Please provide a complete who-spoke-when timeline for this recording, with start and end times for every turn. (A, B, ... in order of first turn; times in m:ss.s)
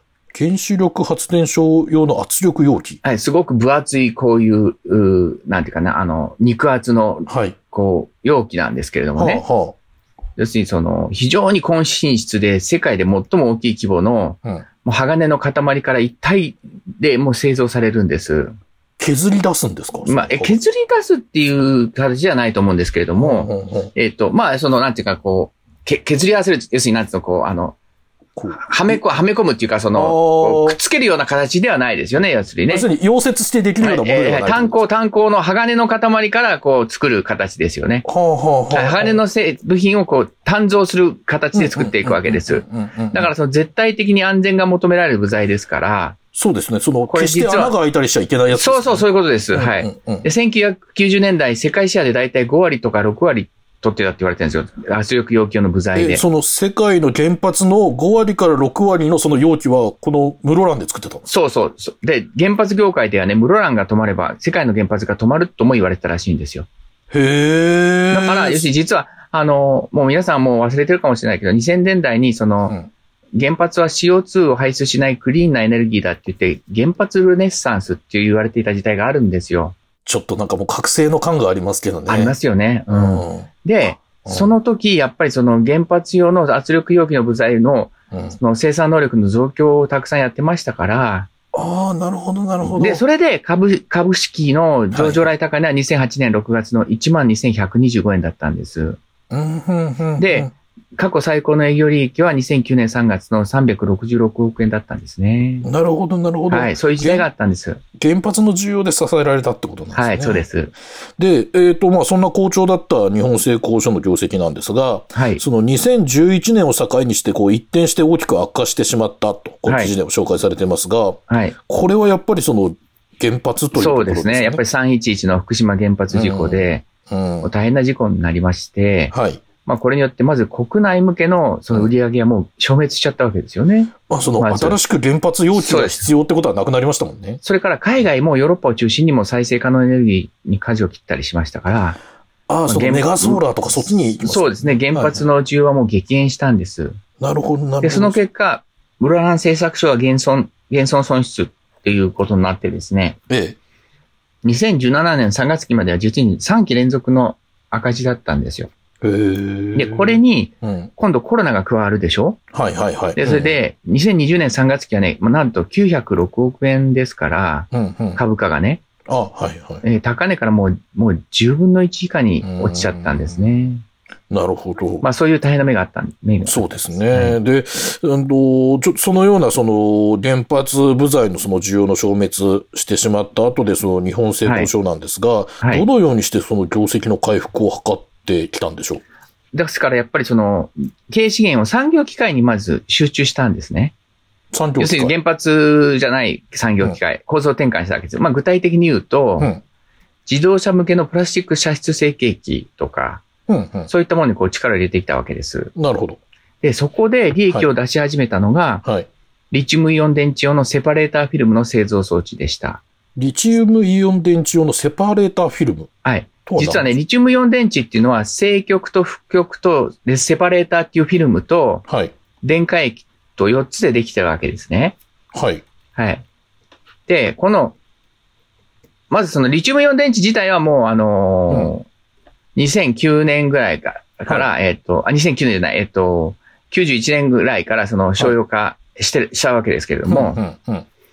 0:00.3-0:03.0 A
0:03.0-0:09.4 B
0:07.3-0:07.6 A
0:09.2-0:09.7 A
0:10.4-0:18.6 B
0:19.0-0:20.6 A
0:20.0-0:27.8 B
0:23.2-0:23.9 A
0:28.4-0:29.0 A
0:28.5-0:32.9 B
0:29.9-0:30.8 A
0:32.7-0:34.8 A
0:33.8-0:38.0 B
0:38.0-0:39.2 A
0:38.7-0:46.2 B
0:41.5-0:43.3 A
0:46.3-0:50.2 A
0:47.1-0:47.7 B
0:48.5-0:56.2 B
0:55.9-1:01.2 A
1:01.3-1:06.7 B
1:07.1-1:08.7 A
1:08.1-1:12.7 B
1:13.3-1:19.7 B
1:20.0-1:22.3 A
1:22.1-1:31.3 B
1:22.9-1:23.5 A
1:24.2-1:24.5 A
1:28.1-1:28.4 A
1:31.5-1:33.0 A
1:32.6-1:39.0 B
1:34.9-1:35.2 A
1:39.3-1:40.5 A
1:40.2-1:45.7 B
1:45.6-1:47.3 A
1:46.5-1:47.8 B
1:48.0-1:50.4 A
1:49.9-1:50.7 B
1:51.2-2:04.6 A
1:55.1-1:55.4 B
1:59.6-1:59.9 B
2:01.3-2:01.5 B
2:03.7-2:06.9 B
2:06.1-2:07.5 A
2:07.4-2:09.1 B
2:09.1-2:09.4 A
2:09.6-2:14.8 B
2:14.1-2:17.4 A
2:15.5-2:16.1 B
2:17.4-2:22.0 B
2:22.5-2:25.2 A
2:22.7-2:23.4 B
2:24.2-2:27.0 B
2:27.2-2:28.2 A
2:27.8-2:33.2 B
2:33.3-2:33.6 A
2:34.4-2:38.7 B
2:39.0-2:40.9 A
2:39.7-2:42.4 B
2:42.5-2:43.6 A
2:43.2-2:48.8 B
2:47.7-2:48.2 A
2:49.1-2:49.8 A
2:49.8-2:53.8 B
2:52.4-2:53.3 A
2:54.3-2:55.0 A
2:55.0-2:57.4 B
2:56.5-3:09.0 A
3:09.5-3:13.9 B
3:14.5-3:15.1 A
3:14.8-3:19.5 B
3:20.2-3:23.2 B
3:23.5-3:23.9 A
3:23.9-3:25.7 B
3:25.8-3:26.2 A
3:26.6-3:28.8 B
3:29.5-3:32.8 B
3:33.2-3:35.9 A
3:36.0-3:41.8 B
3:36.4-3:36.9 A
3:41.9-3:42.1 A
3:42.4-3:45.0 B
3:45.3-3:45.6 A
3:45.9-3:46.2 B
3:47.1-3:47.8 B
3:49.1-3:51.9 B
3:52.6-4:00.4 B
4:00.0-4:00.8 A